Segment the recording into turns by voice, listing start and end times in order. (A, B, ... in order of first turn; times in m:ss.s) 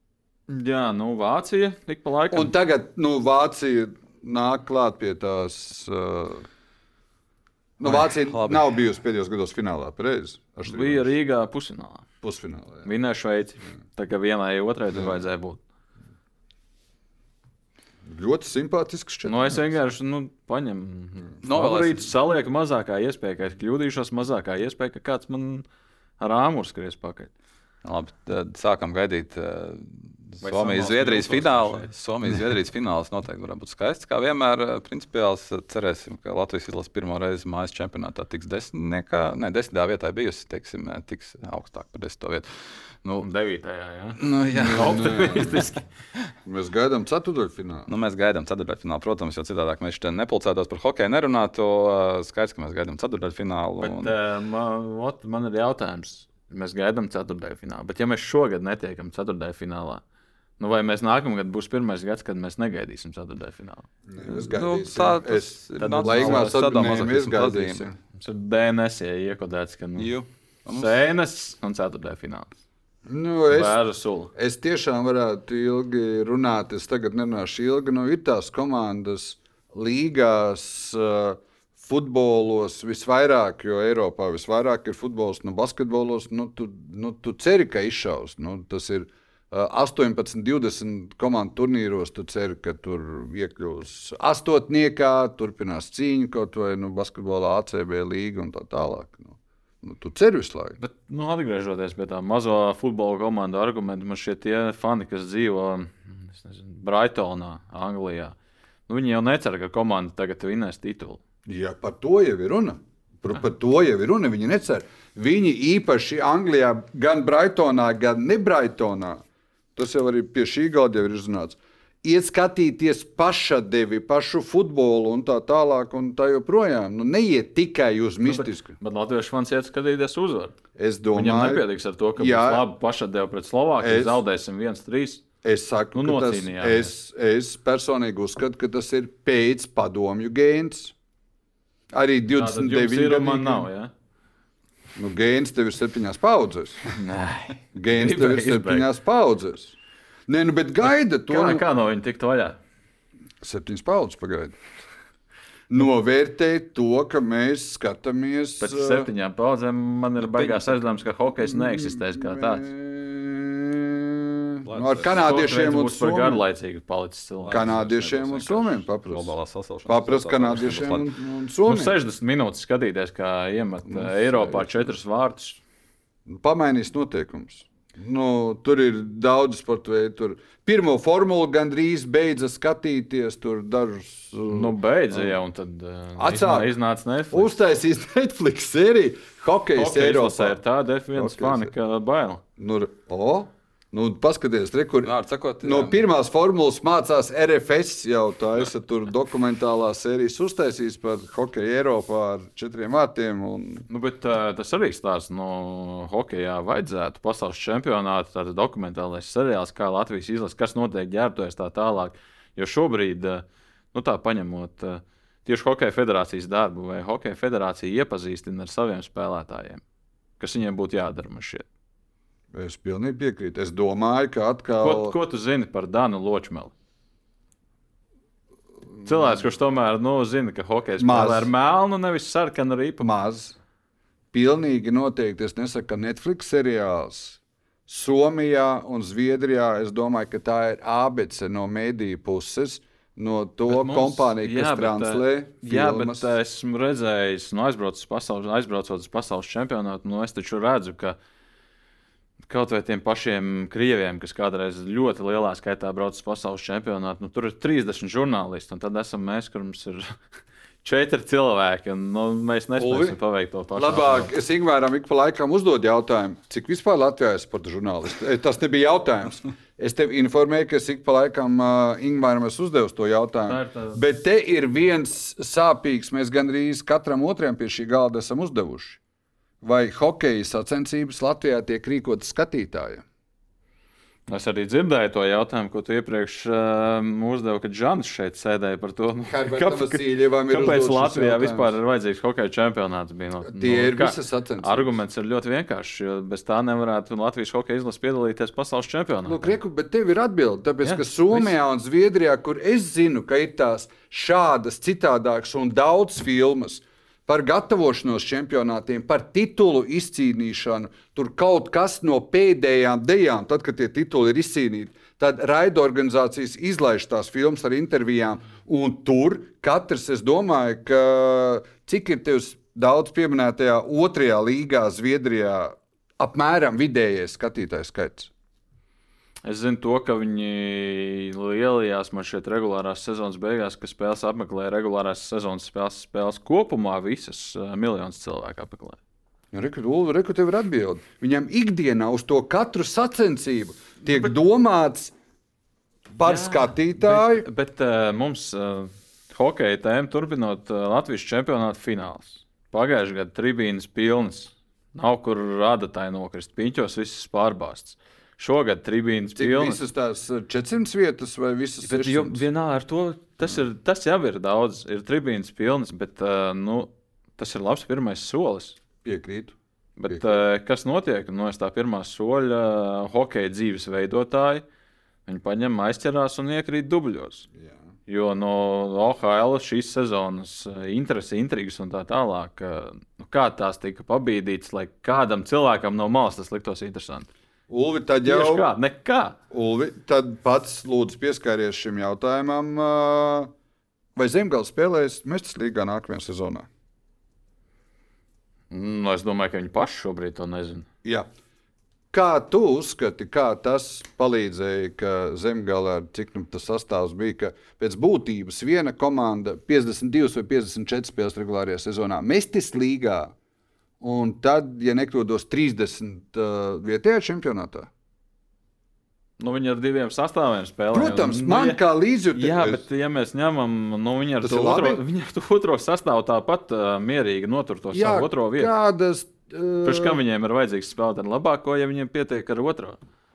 0:00.5-0:02.5 A
0:02.3-0:06.5 B
0:07.8-0:11.1 B
0:07.9-0:08.7 C
0:10.6-0:12.1 A
0:12.2-0:12.9 B
0:12.8-0:15.6 A
0:18.0-0:19.7 B
0:19.3-0:25.6 A
0:21.4-0:22.1 C
0:26.2-0:27.3 A
0:27.8-0:43.3 C
0:30.4-0:31.9 A
0:43.2-0:45.8 A
0:44.2-0:45.6 C
0:44.6-0:45.6 B
0:46.4-0:47.9 B
0:47.9-0:54.2 C
0:53.8-1:00.0 A
1:00.6-1:03.9 A
1:04.1-1:08.0 B
1:04.2-1:07.8 C
1:05.8-1:06.6 A
1:08.2-1:10.1 A
1:10.0-1:10.9 C
1:10.7-1:12.6 A
1:13.1-1:13.8 B
1:13.5-1:14.3 A
1:14.4-1:40.8 B
1:40.8-1:48.4 A
1:48.9-1:51.2 A
1:51.5-1:59.2 B
1:59.8-2:08.8 B
2:08.3-2:10.6 A
2:10.8-2:11.6 B
2:11.1-2:15.2 A
2:12.2-2:12.7 B
2:13.8-2:14.2 B
2:15.4-2:20.9 B
2:16.0-2:16.9 A
2:21.9-2:23.7 B
2:22.3-2:23.9 A
2:25.0-2:26.9 B
2:26.9-2:28.9 A
2:27.7-2:29.8 B
2:30.3-2:31.6 B
2:31.3-2:32.6 A
2:33.4-2:34.6 B
2:35.7-2:39.1 B
2:38.6-2:42.7 A
2:40.2-2:40.8 C
2:41.4-2:46.4 B
2:44.7-2:45.3 C
2:45.0-2:48.8 A
2:47.4-2:47.8 C
2:47.5-2:49.3 B
2:49.1-2:51.1 C
2:49.9-2:52.0 B
2:51.7-2:55.6 A
2:53.9-2:54.8 B
2:56.3-3:05.3 B
3:04.5-3:07.5 A
3:06.2-3:06.7 B
3:07.3-3:10.6 B
3:09.8-3:12.4 A
3:11.1-3:11.7 B
3:12.6-3:23.9 B
3:15.0-3:16.0 C
3:23.9-3:39.8 A
3:40.4-3:41.7 A
3:42.5-3:45.2 B
3:44.8-3:46.7 A
3:49.0-3:53.0 A
3:51.0-3:51.5 B
3:53.0-3:53.6 B
3:54.3-4:06.3 B
4:03.7-4:11.2 A
4:12.5-4:20.1 A
4:20.8-4:24.3 A
4:22.8-4:23.2 B
4:23.8-4:39.0 B
4:33.5-4:34.0 A
4:39.6-4:43.0 B
4:44.3-4:59.5 A
4:49.3-4:51.8 B
4:53.4-4:55.0 B
4:59.3-5:28.3 B
5:00.8-5:01.5 A
5:29.4-5:39.0 A
5:39.5-5:45.1 B
5:46.2-5:47.4 B
5:46.2-5:59.8 A
5:59.4-6:02.4 B
6:01.8-6:08.8 A
6:09.0-6:09.6 B
6:10.0-6:14.6 A
6:10.1-6:10.4 B
6:15.3-6:17.5 A
6:18.1-6:27.3 A
6:27.7-6:28.7 B
6:28.2-6:29.4 A
6:29.5-6:33.5 B
6:34.2-6:36.7 B
6:38.7-6:40.9 A
6:41.0-6:41.3 B
6:42.1-6:53.3 B
6:54.0-6:57.9 B
6:59.4-7:01.8 A
7:00.9-7:02.8 B
7:02.4-7:08.7 A
7:04.4-7:05.0 B
7:07.9-7:10.2 B
7:09.8-7:13.0 A